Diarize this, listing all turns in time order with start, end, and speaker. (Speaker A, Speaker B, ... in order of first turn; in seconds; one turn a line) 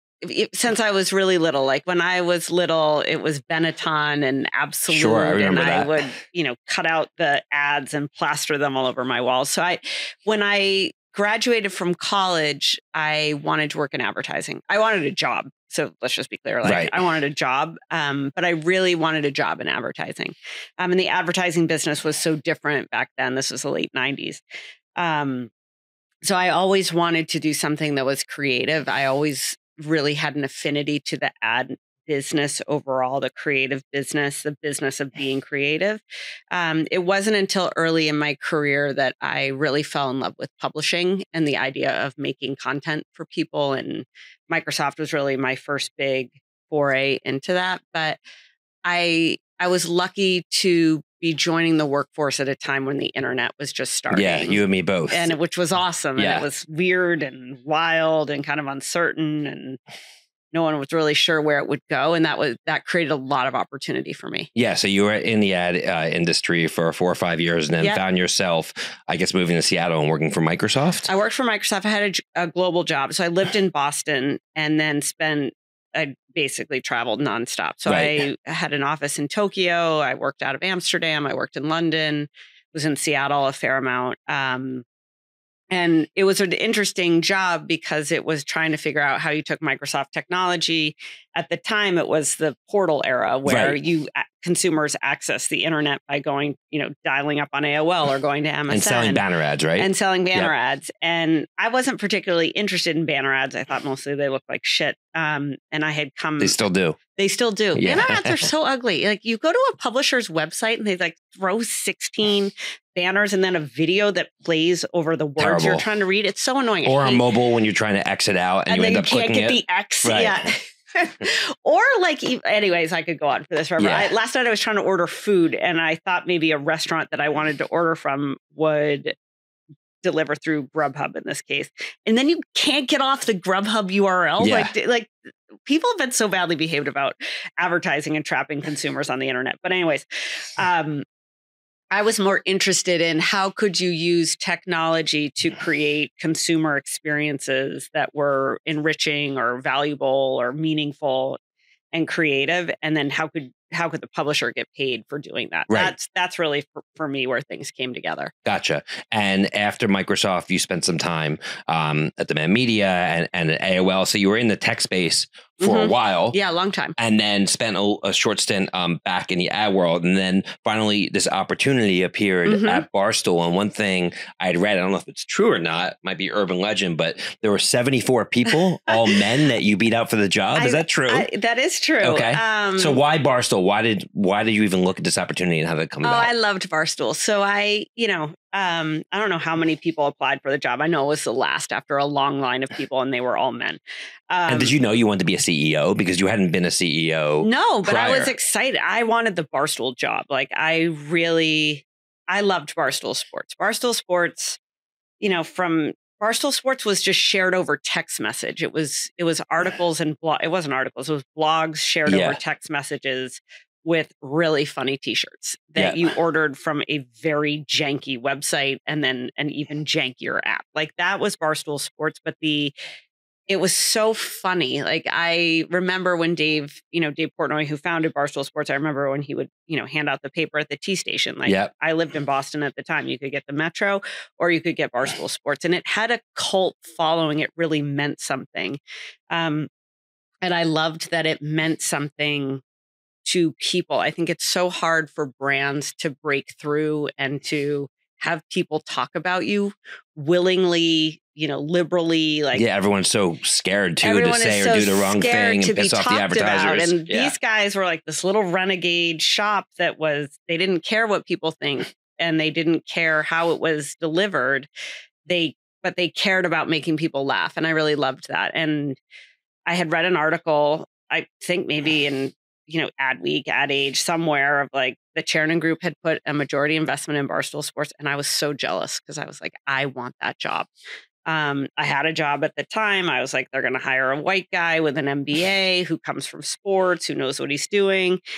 Speaker A: 0.2-24.4
Speaker B: 4.9-5.9
Speaker B: 16.6-16.9
Speaker A: 25.0-25.5
Speaker A: 26.2-48.2
Speaker A: 48.8-59.8
Speaker B: 54.1-55.3
Speaker B: 56.2-56.5
Speaker A: 60.5-64.5
Speaker B: 64.5-71.1
Speaker A: 71.1-84.8
Speaker B: 77.8-78.2
Speaker A: 85.7-99.2
Speaker B: 93.4-93.8
Speaker B: 98.7-100.5
Speaker A: 99.8-106.6
Speaker B: 106.4-107.0
Speaker A: 107.1-117.2
Speaker B: 107.8-108.5
Speaker B: 115.4-115.8
Speaker B: 116.8-120.4
Speaker A: 118.7-129.1
Speaker B: 123.8-124.1
Speaker A: 130.0-135.1
Speaker B: 134.4-134.7
Speaker A: 135.7-140.0
Speaker A: 140.6-141.0
Speaker A: 141.9-151.4
Speaker A: 151.9-158.3
Speaker B: 155.7-155.9
Speaker B: 158.4-166.4
Speaker A: 165.6-166.9
Speaker B: 167.0-181.3
Speaker A: 172.4-172.8
Speaker A: 180.5-183.0
Speaker B: 182.0-186.3
Speaker A: 186.0-194.7
Speaker B: 194.5-198.3
Speaker A: 197.4-204.6
Speaker A: 205.2-222.7
Speaker B: 212.1-212.4
Speaker B: 215.8-216.0
Speaker A: 223.5-239.7
Speaker A: 240.4-242.6
Speaker A: 243.2-252.6
Speaker B: 252.5-257.3
Speaker A: 254.0-264.7
Speaker A: 265.2-269.0
Speaker A: 269.7-280.7
Speaker A: 281.2-288.2